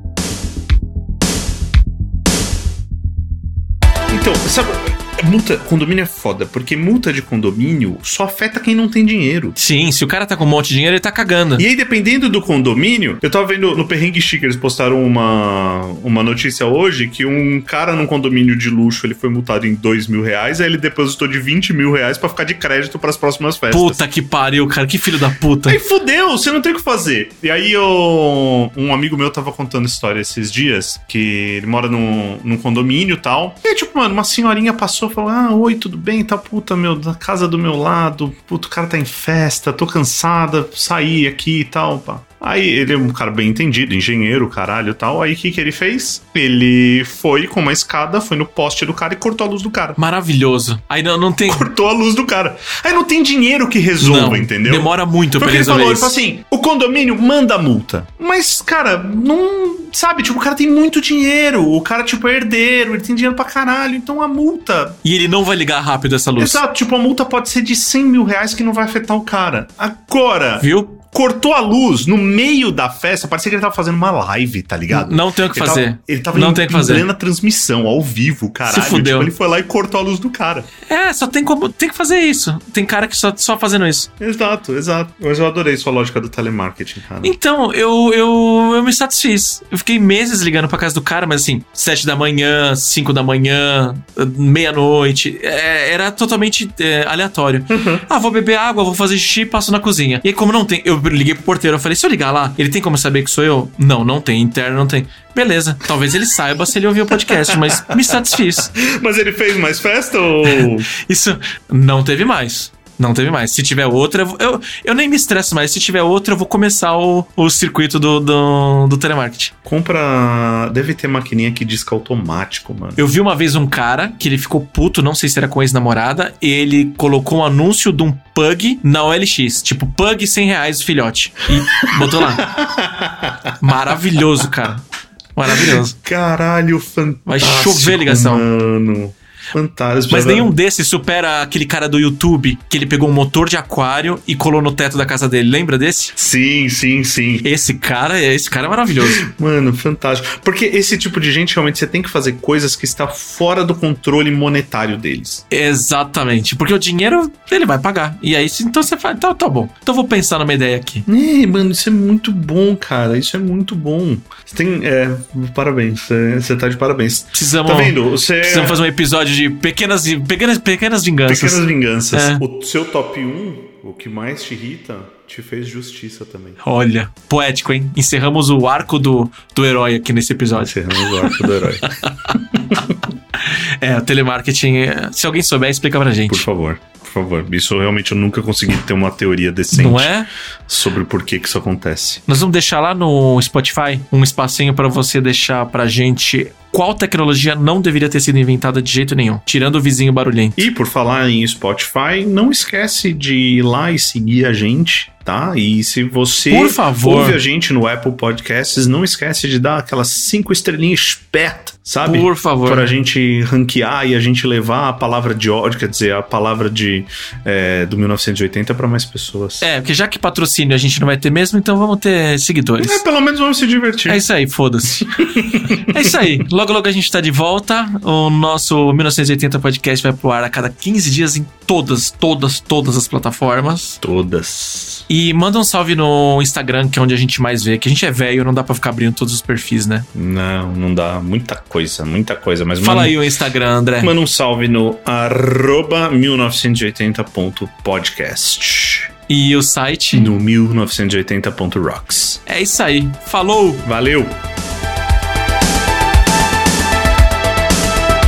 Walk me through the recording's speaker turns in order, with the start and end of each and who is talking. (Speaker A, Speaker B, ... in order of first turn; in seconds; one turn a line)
Speaker A: 4.1-9.6
Speaker B: 9.6-11.6
Speaker A: 11.6-24.0
Speaker B: 23.7-25.8
Speaker A: 25.6-50.0
Speaker B: 50.0-51.7
Speaker A: 51.5-65.0
Speaker B: 54.0-56.1
Speaker B: 65.0-66.6
Speaker A: 66.4-80.7
Speaker B: 70.6-71.0
Speaker B: 74.9-77.0
Speaker B: 78.7-79.3
Speaker B: 80.9-84.1
Speaker A: 84.2-87.4
Speaker B: 87.2-108.7
Speaker A: 97.7-98.0
Speaker A: 107.1-110.9
Speaker B: 110.5-119.5
Speaker A: 119.6-123.0
Speaker B: 123.0-132.5
Speaker A: 131.7-134.5
Speaker B: 133.6-134.8
Speaker B: 135.3-135.9
Speaker A: 135.5-140.5
Speaker B: 137.2-138.4
Speaker B: 140.1-146.1
Speaker A: 146.2-147.5
Speaker B: 147.4-149.2
Speaker A: 149.0-155.4
Speaker B: 155.5-161.1
Speaker A: 161.1-168.8
Speaker B: 167.3-172.4
Speaker A: 171.3-176.6
Speaker B: 176.6-182.4
Speaker A: 180.6-182.9
Speaker B: 183.4-186.4
Speaker A: 186.3-190.1
Speaker B: 189.7-190.3
Speaker A: 190.7-192.2
Speaker B: 192.3-200.6
Speaker A: 200.6-219.7
Speaker B: 206.5-207.4
Speaker B: 212.0-212.9
Speaker B: 219.6-223.0
Speaker A: 222.8-224.2
Speaker B: 224.1-225.1
Speaker A: 225.0-226.4
Speaker B: 225.9-234.0
Speaker A: 234.0-235.1
Speaker B: 235.1-240.1
Speaker A: 240.1-243.2
Speaker B: 242.8-244.1
Speaker A: 244.0-249.1
Speaker B: 249.3-250.3
Speaker A: 250.1-252.4
Speaker B: 252.4-253.9
Speaker A: 253.8-254.4